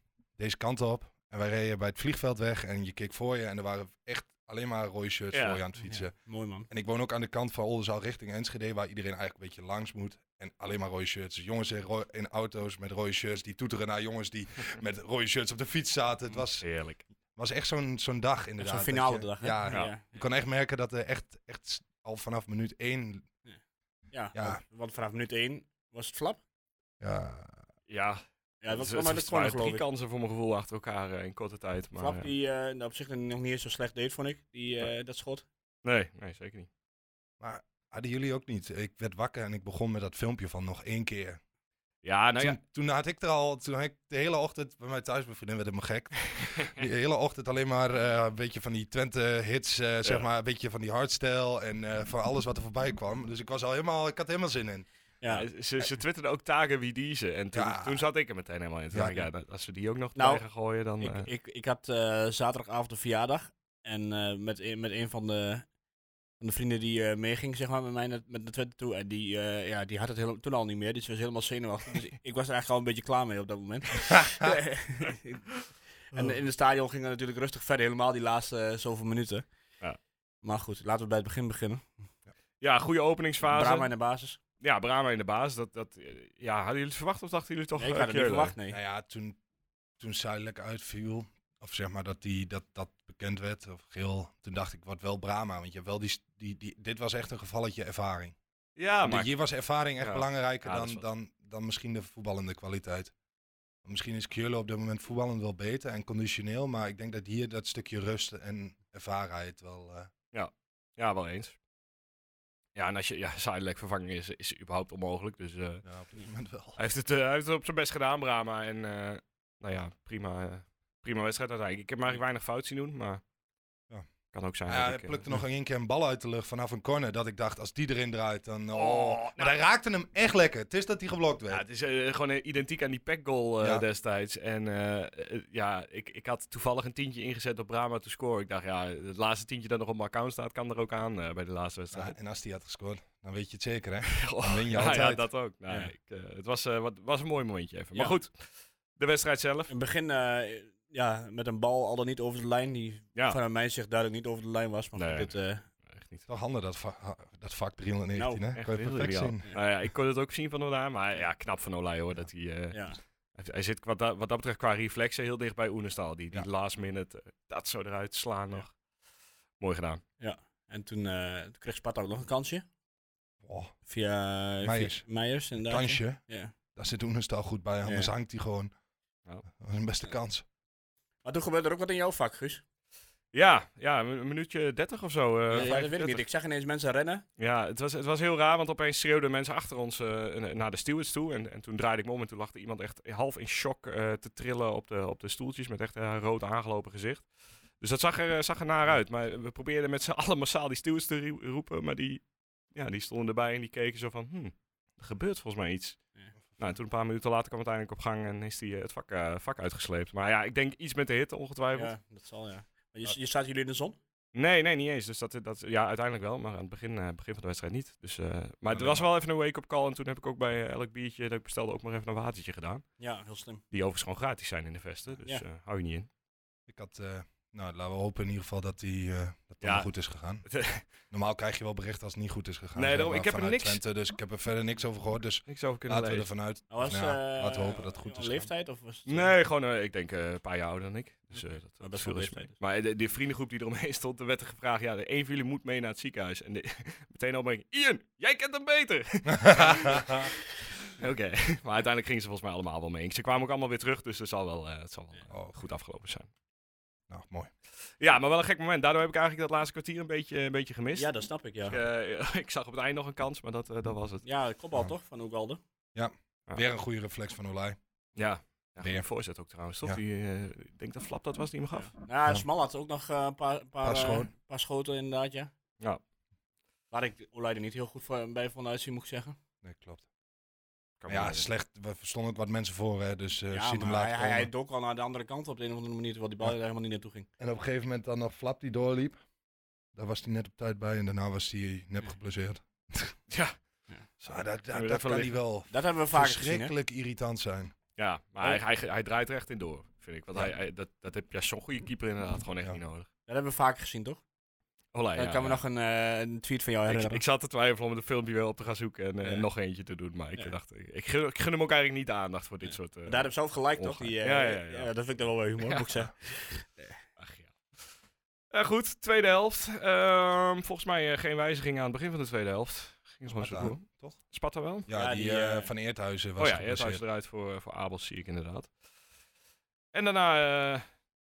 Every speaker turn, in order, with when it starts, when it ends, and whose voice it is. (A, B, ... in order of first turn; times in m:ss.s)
0:00.4-0:16.7 A
0:05.3-0:05.6 B
0:05.8-0:06.7 C
0:16.6-0:17.0 B
0:17.4-0:23.3 A
0:18.6-0:20.2 C
0:19.7-0:19.9 B
0:24.1-0:26.4 C
0:24.3-0:24.6 A
0:27.0-0:27.6 A
0:27.9-0:32.3 B
0:28.6-0:29.8 C
0:32.0-0:35.4 C
0:35.8-0:36.7 B
0:37.4-0:41.4 A
0:42.0-0:42.6 B
0:42.4-0:54.9 A
0:55.2-0:55.5 C
0:55.3-1:01.3 B
0:57.5-0:58.1 A
0:58.9-0:59.2 A
1:00.2-1:00.5 C
1:01.0-1:05.7 C
1:06.4-1:19.4 C
1:20.4-1:21.9 C
1:22.6-1:23.9 B
1:23.4-1:24.4 C
1:24.6-1:28.5 B
1:27.8-1:28.8 C
1:28.7-1:29.4 A
1:30.0-1:38.4 A
1:38.8-1:39.3 B
1:39.0-1:43.1 A
1:40.0-1:41.0 B
1:43.8-1:50.1 A
1:50.3-1:51.6 B
1:52.8-1:55.8 B
1:55.8-1:56.8 A
1:56.8-2:03.2 B
2:04.3-2:05.4 B
2:04.7-2:11.6 A
2:08.7-2:09.6 B
2:11.5-2:22.2 B
2:21.9-2:25.3 A
2:24.2-2:29.7 B
2:29.7-2:35.7 C
2:35.0-2:36.3 B
2:36.3-2:39.5 A
2:38.2-2:38.4 C
2:38.6-2:48.8 B
2:42.7-2:43.0 C
2:49.6-2:50.0 B
2:50.2-2:52.6 C
2:53.4-2:53.7 A
2:53.9-2:56.5 C
2:54.6-2:55.0 A
2:55.6-2:56.2 A
2:56.8-2:58.7 A
2:57.8-2:58.1 C
2:59.5-3:00.4 A
3:01.2-3:02.6 C
3:03.3-3:06.3 B
3:05.5-3:07.2 C
3:07.4-3:26.0 B
3:26.6-3:31.9 B
3:31.7-3:34.0 C
3:34.3-3:42.8 B
3:38.7-3:39.1 A
3:43.0-3:43.6 C
3:43.7-3:46.1 B
3:46.7-3:50.5 A
3:49.6-3:49.9 B
3:50.4-3:50.9 B
3:51.0-3:58.5 A
3:52.8-3:53.8 B
3:55.5-3:56.3 B
3:56.7-3:59.4 C
3:59.1-4:10.3 B
4:01.8-4:02.5 C
4:09.3-4:10.3 A
4:11.0-4:16.3 B
4:15.3-4:15.6 A
4:17.1-4:17.5 A
4:18.0-4:21.1 B
4:21.0-4:21.8 C
4:21.7-4:24.2 B
4:24.2-4:25.6 C
4:26.0-4:27.8 A
4:28.2-4:31.9 B
4:28.8-4:29.1 A
4:31.8-4:35.5 C
4:33.8-4:34.3 A
4:36.9-4:39.4 C
4:39.6-4:40.0 A
4:41.0-4:41.5 B
4:41.1-4:44.5 A
4:43.5-4:47.3 C
4:47.4-4:49.2 A
4:49.9-4:53.2 A
4:53.3-4:53.6 B
4:54.2-4:57.7 A
4:54.7-4:55.4 B
4:55.7-4:56.7 C
4:58.0-5:03.1 B
5:03.3-5:04.2 C
5:04.9-5:05.6 B
5:05.2-5:07.2 C
5:06.9-5:14.9 B
5:12.7-5:17.0 C
5:17.2-5:17.9 B
5:18.5-5:24.9 B
5:23.3-5:24.2 A
5:24.9-5:27.0 A
5:24.9-5:25.7 C
5:26.4-5:28.7 B
5:29.9-5:30.9 B